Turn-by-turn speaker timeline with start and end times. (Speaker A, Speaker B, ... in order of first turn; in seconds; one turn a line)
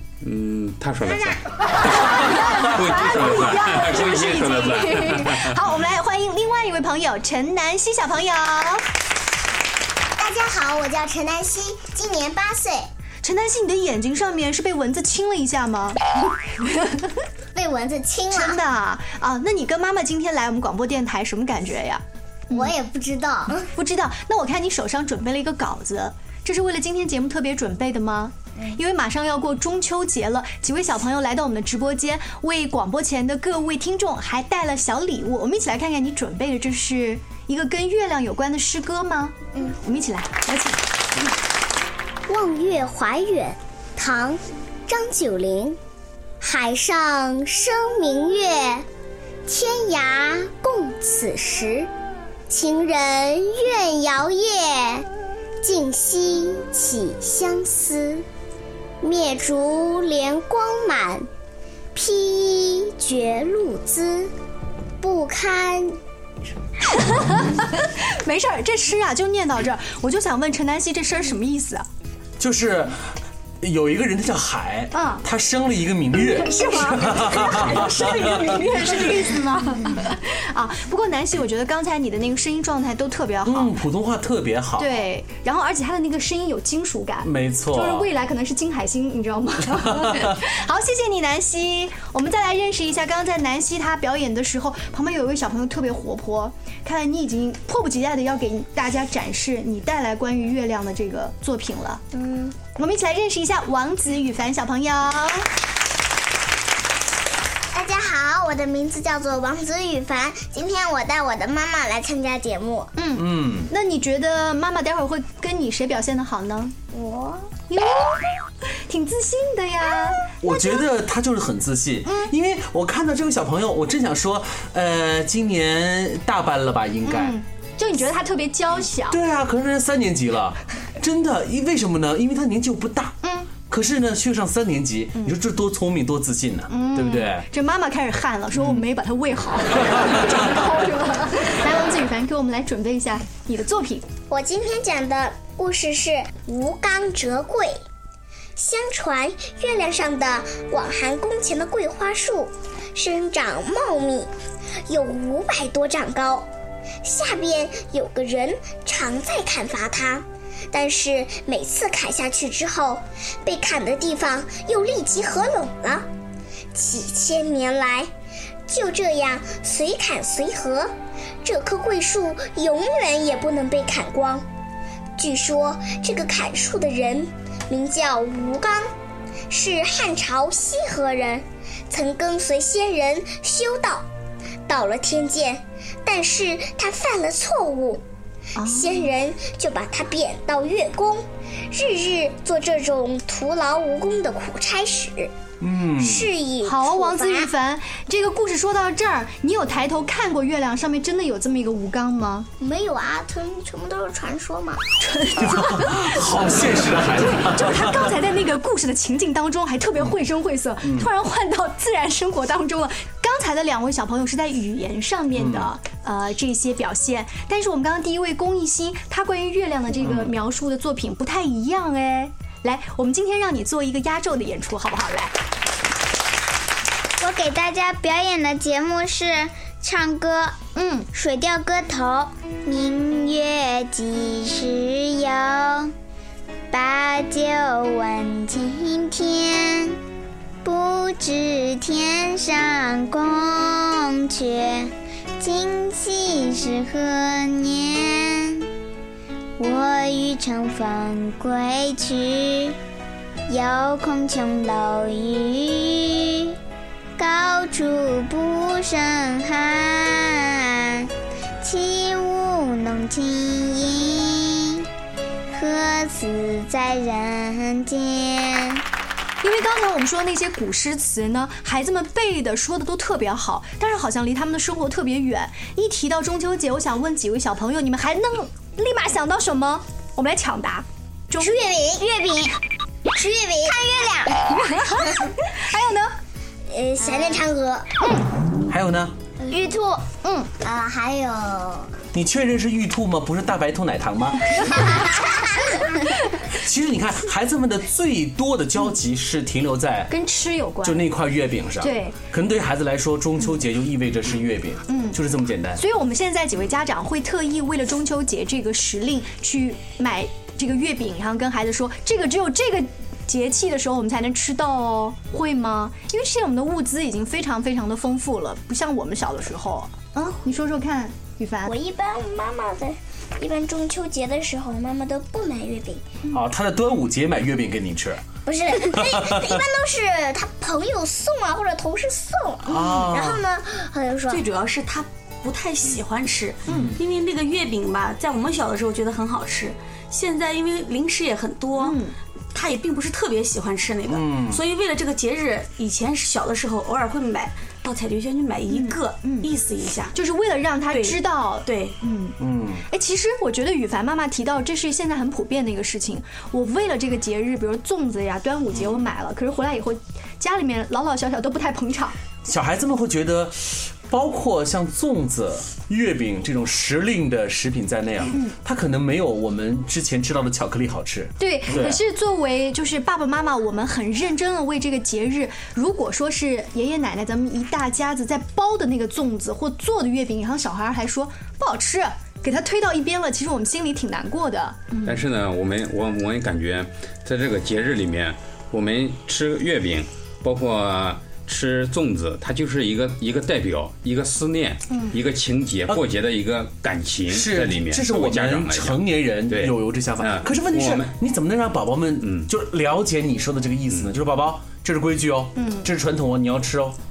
Speaker A: 0.2-5.7
Speaker B: 1.7-8.8
Speaker C: 10.2-12.8
Speaker B: 13.2-17.1
Speaker C: 17.5-18.6
Speaker B: 18.3-22.7
Speaker C: 22.5-23.7
Speaker B: 23.7-40.8
Speaker C: 42.3-45.8
Speaker C: 46.4-48.8
Speaker C: 49.5-51.9
Speaker C: 52.5-53.8
Speaker D: 53.8-55.0
Speaker C: 55.6-58.2
Speaker D: 56.1-56.6
Speaker D: 59.0-60.4
Speaker C: 59.5-61.2
Speaker C: 61.9-64.3
Speaker C: 65.0-66.0
Speaker B: 66.9-71.8
Speaker E: 72.4-73.0
Speaker E: 73.6-79.2
Speaker B: 74.9-75.2
Speaker B: 76.4-83.7
Speaker E: 83.4-85.0
Speaker B: 84.8-102.0
Speaker E: 87.2-88.1
Speaker E: 89.7-90.4
Speaker C: 102.1-102.6
Speaker B: 102.7-105.5
Speaker C: 107.7-108.6
Speaker D: 108.2-110.1
Speaker C: 109.1-110.9
Speaker D: 110.8-112.1
Speaker C: 112.0-112.9
Speaker B: 113.0-116.7
Speaker E: 113.2-113.7
Speaker C: 116.9-117.5
Speaker B: 117.7-118.2
Speaker B: 118.9-120.8
Speaker E: 120.4-127.4
Speaker B: 122.0-122.3
Speaker B: 127.0-129.2
Speaker E: 129.1-133.2
Speaker B: 133.2-133.5
Speaker E: 133.7-137.4
Speaker B: 136.7-144.1
Speaker E: 138.5-138.8
Speaker E: 139.9-140.5
Speaker C: 144.3-147.7
Speaker C: 148.6-154.3
Speaker C: 154.9-156.5
Speaker C: 157.0-166.1
Speaker C: 166.7-168.1
Speaker C: 168.7-170.9
Speaker C: 171.4-174.4
Speaker C: 175.2-178.9
Speaker C: 179.5-184.0
Speaker C: 184.7-188.0
Speaker B: 188.6-189.0
Speaker C: 188.6-195.3
Speaker E: 195.6-196.3
Speaker C: 196.0-197.5
Speaker B: 196.6-202.5
Speaker C: 202.6-204.8
Speaker B: 205.0-206.2
Speaker E: 205.4-208.1
Speaker B: 207.0-225.3
Speaker E: 210.8-211.1
Speaker E: 215.3-215.7
Speaker E: 220.0-220.3
Speaker D: 227.2-230.6
Speaker B: 230.7-231.1
Speaker D: 231.1-235.9
Speaker D: 236.7-240.0
Speaker D: 240.6-248.7
Speaker D: 249.6-252.8
Speaker D: 253.5-256.5
Speaker D: 257.2-261.1
Speaker D: 261.6-264.8
Speaker D: 265.5-268.8
Speaker B: 269.4-281.6
Speaker C: 281.4-282.5
Speaker C: 283.1-284.3
Speaker B: 284.4-286.1
Speaker C: 286.7-287.9
Speaker E: 288.7-289.1
Speaker C: 289.4-290.0
Speaker B: 290.2-290.5
Speaker C: 290.6-291.9
Speaker E: 292.1-294.4
Speaker C: 294.6-295.6
Speaker E: 296.6-300.1
Speaker B: 300.1-301.0
Speaker E: 300.8-305.8
Speaker B: 301.8-302.2
Speaker B: 304.9-305.2
Speaker B: 305.8-321.7
Speaker C: 321.6-326.0
Speaker E: 326.3-328.2
Speaker C: 328.4-334.4
Speaker E: 328.8-329.6
Speaker E: 332.6-333.4
Speaker F: 334.3-342.0
Speaker E: 336.7-337.0
Speaker B: 336.7-336.9
Speaker B: 341.8-342.1
Speaker F: 342.5-350.1
Speaker E: 344.1-344.6
Speaker B: 348.7-349.5
Speaker B: 350.1-352.4
Speaker F: 350.9-351.9
Speaker E: 352.4-352.8
Speaker B: 352.9-362.1
Speaker E: 362.4-372.0
Speaker B: 371.4-385.2
Speaker A: 385.0-401.1
Speaker E: 397.3-407.0
Speaker A: 402.2-402.5
Speaker B: 405.6-405.9